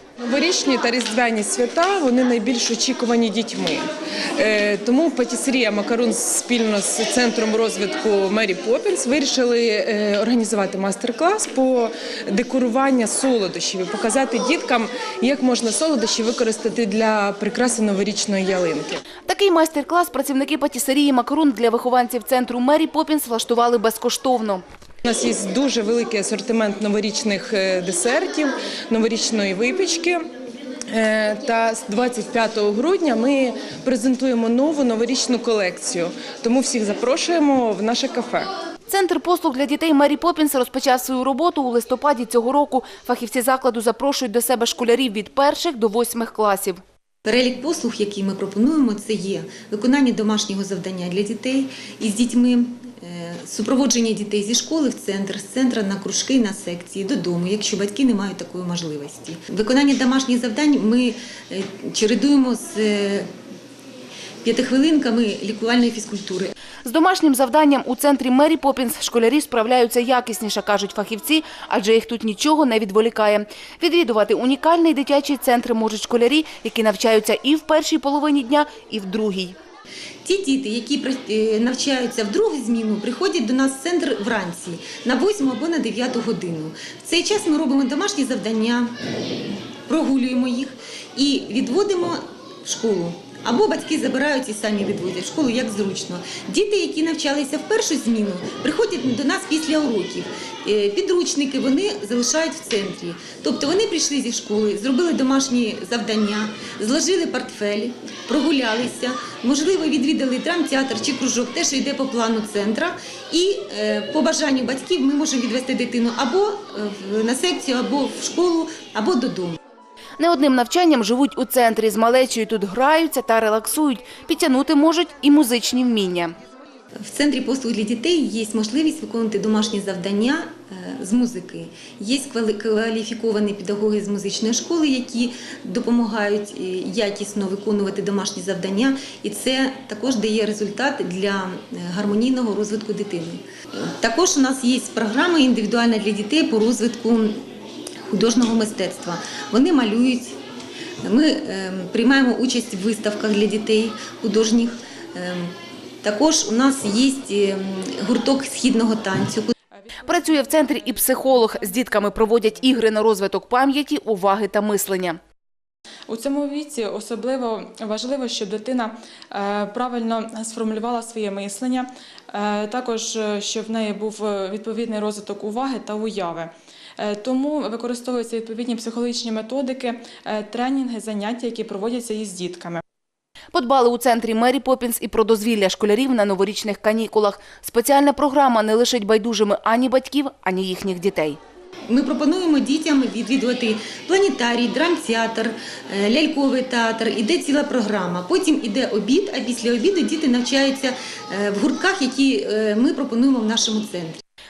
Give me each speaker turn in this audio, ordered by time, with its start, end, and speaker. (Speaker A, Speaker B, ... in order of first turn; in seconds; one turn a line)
Speaker A: 0.2-19.0
Speaker B: 19.3-24.6
Speaker A: 25.1-30.2
Speaker A: 30.9-38.5
Speaker B: 38.9-46.8
Speaker C: 47.2-63.3
Speaker C: 64.4-66.5
Speaker B: 66.8-79.5
Speaker C: 80.2-88.9
Speaker C: 89.9-119.6
Speaker B: 120.2-126.3
Speaker C: 127.0-147.4
Speaker C: 148.1-150.4
Speaker C: 151.0-159.5
Speaker D: 159.7-162.6
Speaker B: 160.1-165.2
Speaker D: 166.1-182.8
Speaker B: 183.5-191.4
Speaker C: 191.9-204.2